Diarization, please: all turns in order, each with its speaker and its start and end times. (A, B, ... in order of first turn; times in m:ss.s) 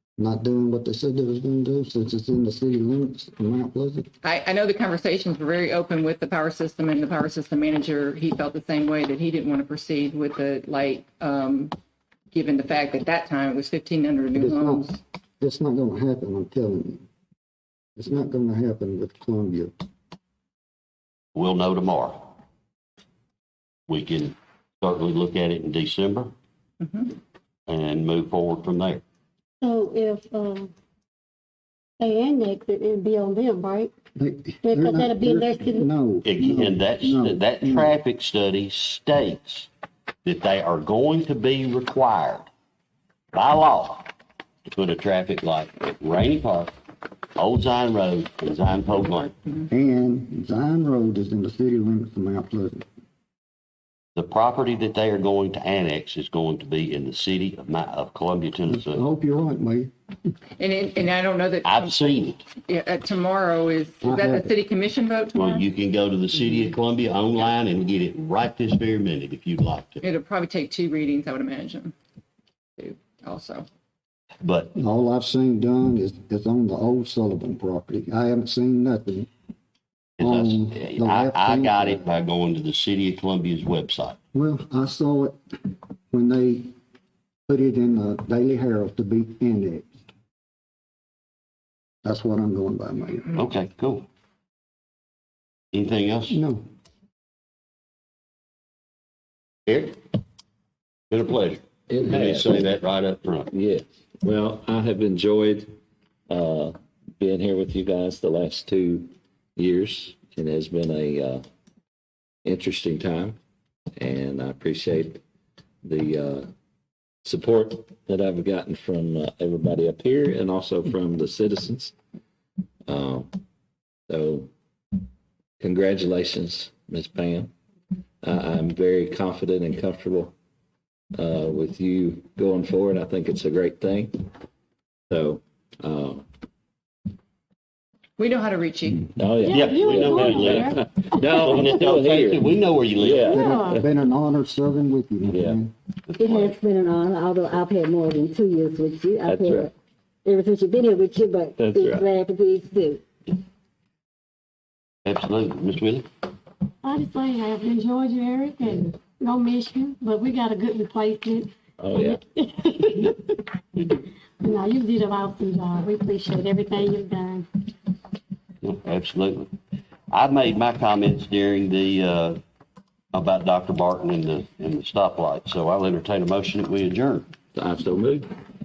0:00.2-0:04.1 A
0:04.2-0:11.7 B
0:12.3-0:15.0 B
0:14.3-0:17.0 A
0:18.0-0:19.7 A
0:21.4-0:22.3 C
0:23.9-0:26.3 C
0:26.8-0:27.1 B
0:27.7-0:29.0 C
0:29.6-0:30.7 D
0:32.0-0:33.9 D
0:34.2-0:38.0 A
0:34.6-0:35.9 D
0:36.2-0:39.7 C
0:40.2-0:42.5 C
0:43.3-0:44.1 C
0:44.7-0:46.7 C
0:47.4-0:49.3 C
0:49.7-0:52.8 A
0:54.2-0:59.0 C
0:58.7-0:59.9 A
1:00.6-1:02.1 B
1:01.6-1:02.4 C
1:02.6-1:05.6 B
1:04.0-1:04.5 A
1:05.4-1:10.0 C
1:10.0-1:11.9 B
1:12.8-1:13.7 B
1:14.4-1:14.7 C
1:14.7-1:19.3 A
1:20.2-1:24.2 C
1:20.2-1:22.0 A
1:24.3-1:25.4 A
1:26.1-1:26.7 A
1:27.5-1:30.0 A
1:32.0-1:33.3 A
1:33.3-1:34.1 C
1:35.7-1:36.4 C
1:36.3-1:36.6 A
1:39.7-1:40.0 C
1:41.1-1:43.5 C
1:41.9-1:42.7 E
1:43.5-1:45.7 E
1:46.3-1:51.4 E
1:52.4-1:53.4 E
1:54.0-1:55.2 E
1:55.8-1:56.5 E
1:57.2-2:01.9 E
2:02.9-2:03.3 E
2:04.1-2:04.5 E
2:05.6-2:07.5 E
2:08.2-2:10.3 E
2:11.2-2:14.3 E
2:15.1-2:16.2 E
2:18.2-2:19.1 B
2:19.1-2:23.8 E
2:19.4-2:21.8 D
2:19.5-2:23.3 C
2:23.2-2:23.8 D
2:23.2-2:25.7 A
2:25.3-2:25.6 E
2:26.1-2:26.6 C
2:26.2-2:29.7 F
2:29.2-2:29.7 E
2:30.2-2:33.0 F
2:31.6-2:32.0 E
2:35.0-2:36.1 C
2:36.8-2:43.0 D
2:41.8-2:42.2 E
2:44.4-2:47.4 D
2:48.6-2:49.5 C
2:50.1-2:52.4 C
2:53.1-2:57.3 C
2:57.6-2:58.3 E